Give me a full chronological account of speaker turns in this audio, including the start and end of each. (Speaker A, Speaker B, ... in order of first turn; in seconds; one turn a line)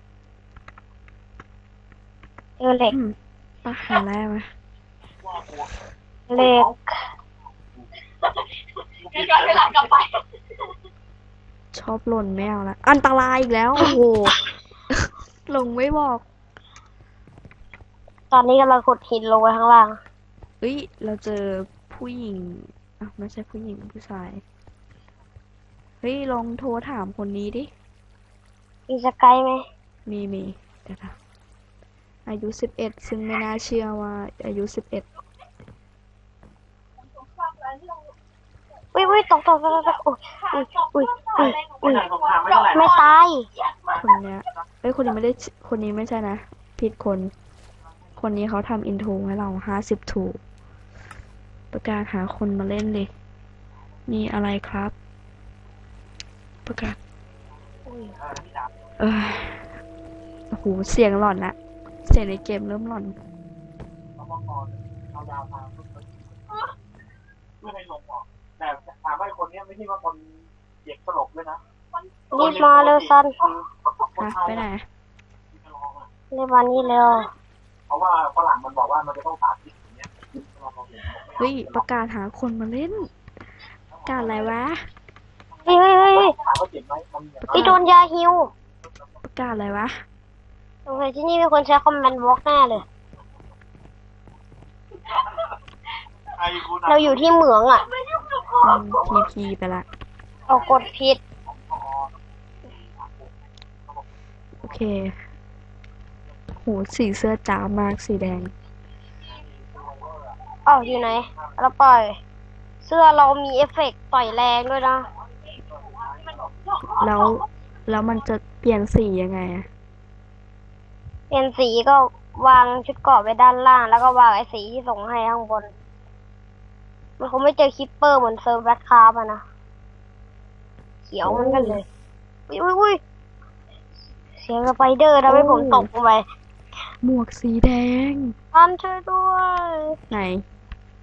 Speaker A: 2.6-3.0
Speaker B: 2.9-4.5
Speaker A: 6.3-7.0
Speaker C: 9.1-9.9
Speaker B: 11.7-14.4
Speaker B: 14.9-16.2
Speaker A: 18.3-20.0
Speaker B: 20.6-24.4
Speaker B: 26.0-27.7
Speaker A: 28.9-29.6
Speaker B: 30.1-31.2
Speaker B: 32.3-35.1
Speaker C: 37.5-38.0
Speaker A: 39.0-43.5
Speaker C: 40.6-43.1
Speaker B: 44.0-47.3
Speaker B: 48.2-50.4
Speaker B: 51.7-53.1
Speaker B: 54.1-54.9
Speaker B: 56.7-57.0
Speaker A: 57.9-58.2
Speaker B: 59.0-59.7
Speaker B: 60.5-63.2
Speaker C: 64.2-66.0
Speaker C: 67.6-70.3
Speaker C: 70.8-71.6
Speaker A: 72.3-73.4
Speaker C: 72.4-73.0
Speaker C: 74.2-74.5
Speaker B: 74.2-74.9
Speaker C: 75.7-76.0
Speaker A: 76.3-77.3
Speaker C: 77.9-81.4
Speaker B: 81.4-83.1
Speaker B: 84.1-84.8
Speaker A: 85.7-86.4
Speaker C: 86.3-87.5
Speaker B: 87.4-87.8
Speaker A: 87.5-88.5
Speaker B: 89.2-90.0
Speaker A: 90.9-92.8
Speaker C: 96.4-97.2
Speaker A: 96.7-97.9
Speaker C: 98.2-99.2
Speaker B: 98.6-99.9
Speaker A: 100.5-101.2
Speaker B: 104.6-105.2
Speaker B: 106.5-108.5
Speaker C: 109.5-110.3
Speaker A: 110.7-112.2
Speaker A: 112.8-115.1
Speaker C: 115.6-117.3
Speaker B: 116.8-119.7
Speaker A: 121.3-125.7
Speaker A: 127.2-129.4
Speaker A: 131.1-131.8
Speaker B: 131.2-131.8
Speaker A: 132.5-133.0
Speaker A: 134.4-136.2
Speaker B: 135.3-135.9
Speaker B: 137.0-138.4
Speaker A: 138.5-140.0
Speaker B: 140.1-140.4